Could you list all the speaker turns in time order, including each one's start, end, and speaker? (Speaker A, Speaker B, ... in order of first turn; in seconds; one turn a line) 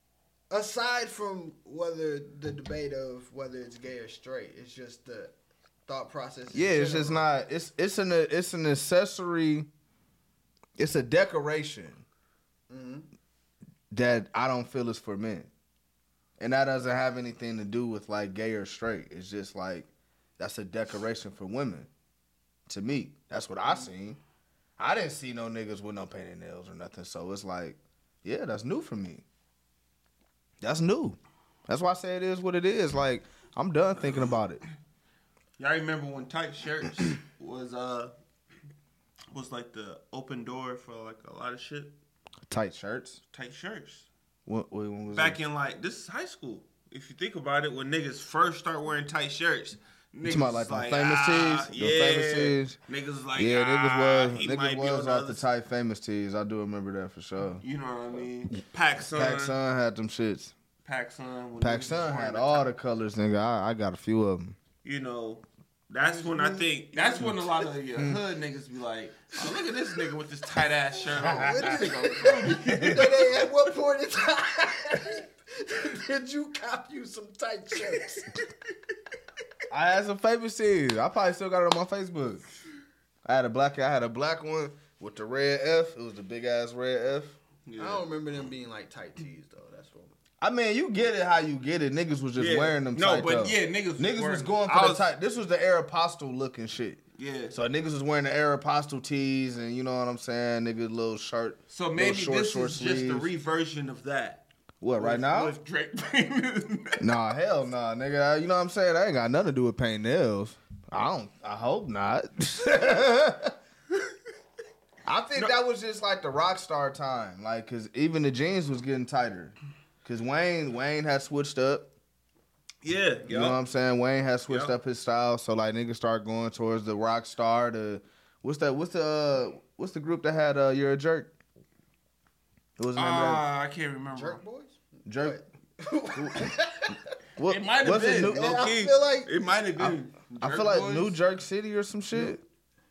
Speaker A: 0.5-5.3
Speaker A: 5.8-7.2
Speaker B: 6.5-9.7
Speaker B: 10.8-12.0
Speaker A: 12.7-13.1
Speaker B: 13.9-15.5
Speaker B: 16.4-21.9
Speaker B: 22.7-24.2
Speaker B: 24.8-29.2
Speaker B: 30.6-34.6
Speaker C: 35.6-38.1
Speaker C: 39.3-41.9
Speaker B: 42.5-43.2
Speaker C: 43.3-44.1
Speaker B: 44.5-45.4
Speaker C: 45.1-55.5
Speaker B: 50.2-52.8
Speaker B: 53.4-57.6
Speaker C: 57.6-59.6
Speaker B: 59.1-60.5
Speaker C: 60.8-62.7
Speaker B: 61.6-64.5
Speaker C: 64.8-73.4
Speaker A: 66.0-67.4
Speaker B: 71.2-73.2
Speaker A: 71.3-78.4
Speaker B: 79.7-82.4
Speaker B: 83.2-87.4
Speaker C: 87.7-88.0
Speaker A: 87.8-90.2
Speaker B: 90.4-103.3
Speaker C: 92.3-95.1
Speaker C: 97.2-97.5
Speaker C: 101.7-107.0
Speaker B: 104.8-105.5
Speaker B: 107.0-113.5
Speaker B: 115.0-121.9
Speaker C: 122.8-123.6
Speaker B: 123.3-131.3
Speaker C: 124.5-124.7
Speaker B: 132.8-133.4
Speaker C: 132.9-134.4
Speaker A: 134.1-137.0
Speaker B: 135.1-135.4
Speaker B: 136.1-136.5
Speaker B: 137.4-138.6
Speaker C: 137.4-141.1
Speaker A: 138.2-139.3
Speaker B: 139.8-142.4